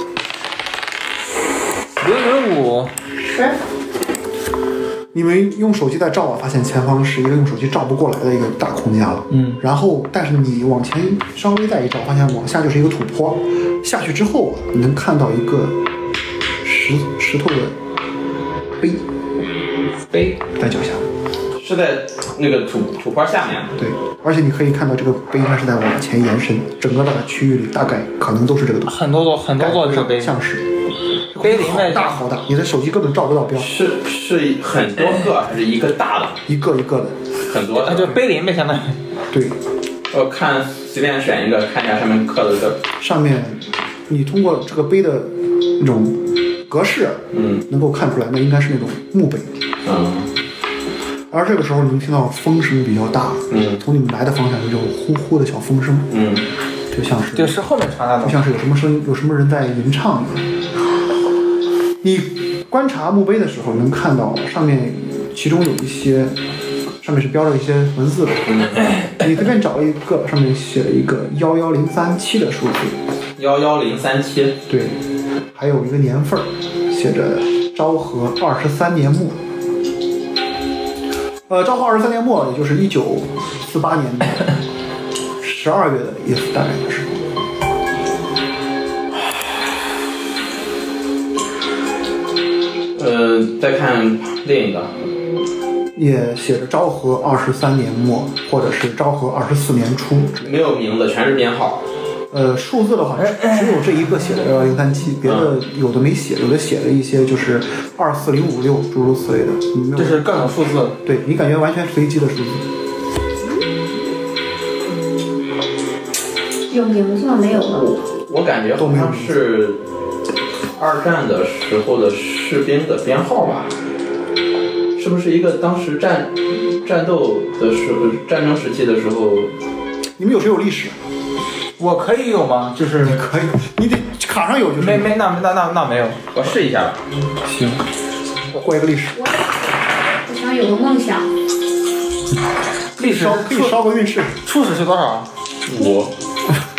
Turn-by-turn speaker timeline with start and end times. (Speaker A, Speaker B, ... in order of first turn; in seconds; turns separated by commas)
Speaker A: 2.0-2.9, Speaker B: 3.2-3.6, Speaker C: 5.1-15.8, Speaker A: 9.3-9.6, Speaker C: 16.6-17.8, Speaker A: 20.1-20.4, Speaker C: 20.6-21.0, Speaker D: 21.6-23.8, Speaker C: 23.8-29.0, Speaker A: 28.9-30.3, Speaker C: 29.6-30.7, Speaker C: 31.3-33.7, Speaker A: 31.4-32.2, Speaker D: 33.6-36.4, Speaker C: 36.5-37.2, Speaker D: 37.4-38.2, Speaker A: 37.7-39.0, Speaker C: 39.3-39.6, Speaker D: 40.1-42.8, Speaker C: 43.0-49.5, Speaker D: 47.3-47.6, Speaker D: 49.8-50.3, Speaker C: 51.3-56.1, Speaker D: 53.5-53.8, Speaker D: 56.1-56.5, Speaker C: 56.9-57.6, Speaker A: 57.3-58.4, Speaker C: 58.2-60.5, Speaker C: 62.0-66.4, Speaker C: 67.0-68.7, Speaker D: 68.5-69.0, Speaker C: 69.2-73.0, Speaker D: 73.4-74.6, Speaker C: 74.7-75.0, Speaker C: 75.5-79.4, Speaker C: 81.5-84.6, Speaker C: 85.4-87.2, Speaker D: 93.0-95.0, Speaker C: 95.9-100.5, Speaker D: 100.4-101.8, Speaker C: 102.3-110.3, Speaker A: 103.3-103.7, Speaker D: 105.2-105.5, Speaker A: 110.0-111.0, Speaker C: 111.0-112.7, Speaker B: 116.7-117.9, Speaker D: 117.6-119.8, Speaker C: 118.8-119.4, Speaker D: 120.8-123.7, Speaker D: 125.0-129.5, Speaker C: 130.2-130.9, Speaker A: 131.8-133.2, Speaker C: 132.9-135.1, Speaker A: 134.8-136.2, Speaker D: 136.3-137.0, Speaker C: 137.4-137.8, Speaker C: 138.5-139.2, Speaker B: 139.2-139.4, Speaker B: 140.2-141.2, Speaker A: 143.0-143.8, Speaker C: 143.0-144.4, Speaker A: 144.4-145.3, Speaker D: 145.6-146.1